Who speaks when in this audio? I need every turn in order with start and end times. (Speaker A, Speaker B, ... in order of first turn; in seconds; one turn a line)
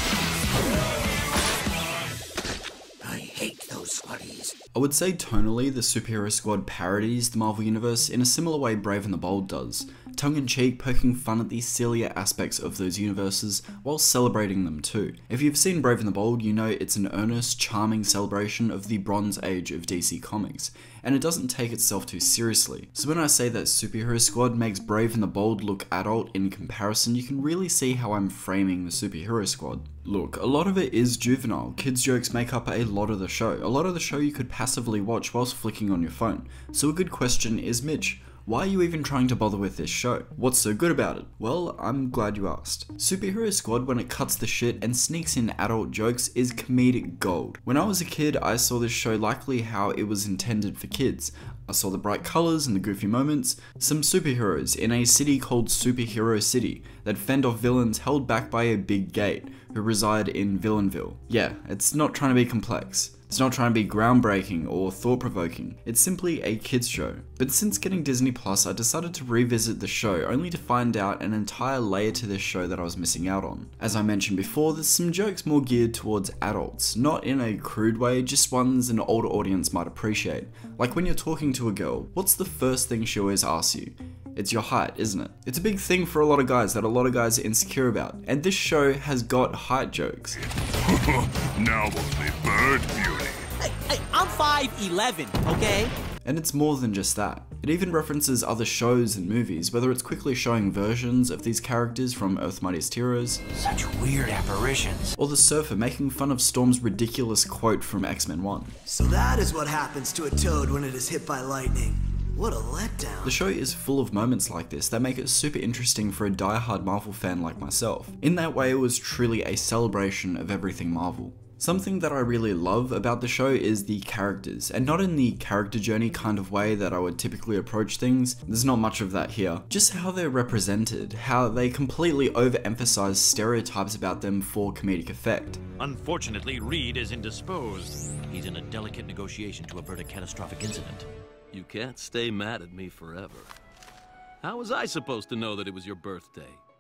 Speaker A: 3.0-4.5
Speaker B: 4.7-90.4
Speaker C: 90.9-93.5
Speaker A: 93.9-95.9
Speaker B: 96.2-103.4
Speaker D: 103.6-105.1
Speaker B: 105.2-108.9
Speaker E: 108.9-113.4
Speaker B: 113.2-135.6
Speaker D: 135.8-141.1
Speaker F: 141.5-143.5
Speaker F: 144.4-146.6